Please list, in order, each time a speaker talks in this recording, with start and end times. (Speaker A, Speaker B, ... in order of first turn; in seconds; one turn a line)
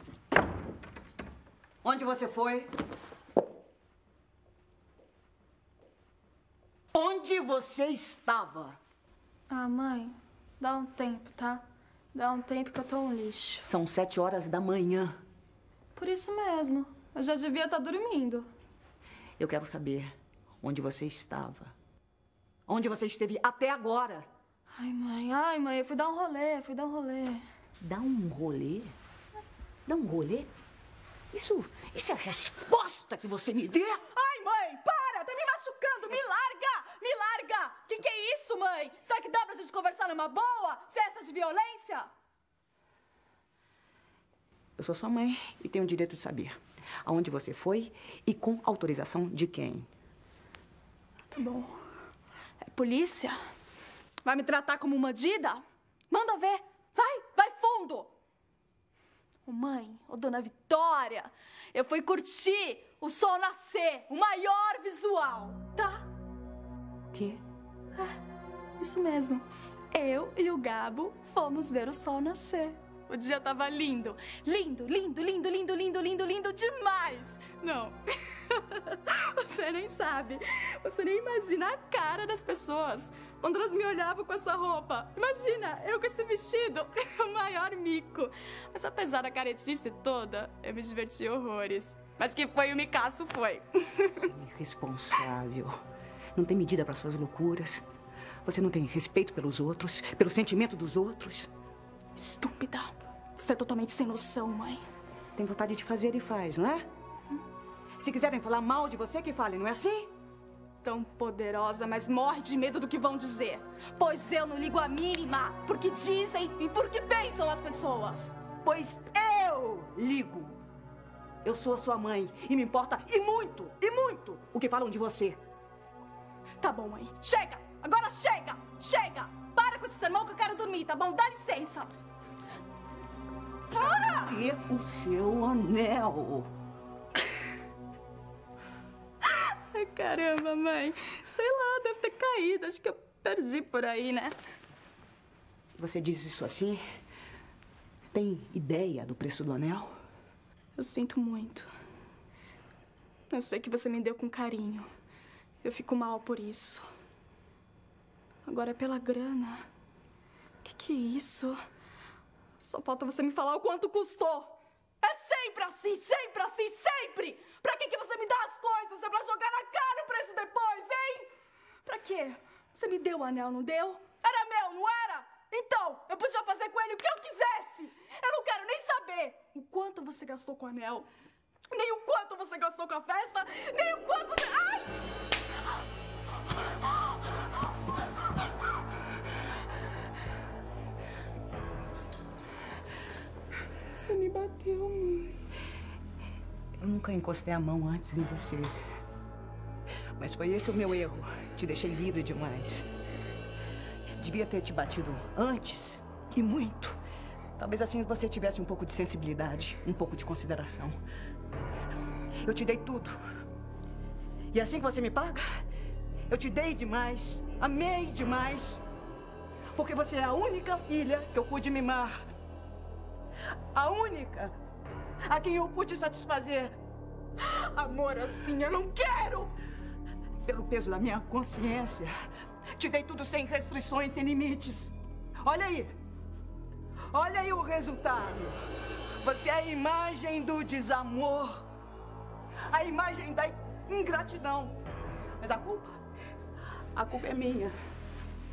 Speaker A: 1.8-2.7
Speaker A: 6.9-8.8
Speaker B: 9.5-13.7
Speaker A: 13.7-15.2
Speaker B: 15.9-18.5
Speaker A: 19.4-21.7
Speaker A: 22.7-24.3
Speaker B: 24.7-27.4
Speaker A: 27.8-28.9
Speaker A: 29.9-30.5
Speaker A: 31.3-34.0
Speaker B: 34.1-42.1
Speaker A: 44.8-49.9
Speaker B: 51.3-51.8
Speaker B: 52.6-53.4
Speaker B: 54.2-58.1
Speaker B: 59.5-66.1
Speaker A: 67.1-67.4
Speaker B: 68.8-94.3
Speaker A: 94.2-95.8
Speaker A: 96.3-97.8
Speaker A: 98.5-101.5
Speaker B: 102.2-104.8
Speaker A: 105.4-106.9
Speaker A: 108.0-110.1
Speaker B: 110.8-118.4
Speaker A: 118.6-120.6
Speaker A: 121.4-125.4
Speaker B: 126.6-131.9
Speaker A: 133.7-136.5
Speaker B: 133.8-134.3
Speaker B: 139.2-144.3
Speaker A: 145.8-146.8
Speaker A: 148.1-150.0
Speaker B: 150.8-151.7
Speaker B: 153.3-154.9
Speaker B: 155.6-156.8
Speaker B: 158.4-159.7
Speaker B: 160.6-161.6
Speaker B: 162.6-171.3
Speaker B: 171.8-181.1
Speaker B: 181.7-185.0
Speaker B: 193.9-195.4
Speaker A: 196.8-198.7
Speaker A: 200.2-202.9
Speaker A: 204.2-207.0
Speaker A: 207.6-211.0
Speaker A: 212.4-213.2
Speaker A: 214.5-215.6
Speaker A: 216.3-218.8
Speaker A: 219.7-222.1
Speaker A: 223.7-224.5
Speaker A: 225.2-226.8
Speaker B: 227.4-229.5
Speaker A: 230.4-232.1
Speaker A: 232.8-235.9
Speaker A: 237.1-238.6
Speaker A: 239.2-241.7
Speaker A: 242.7-244.8
Speaker A: 245.4-245.9
Speaker A: 246.9-247.7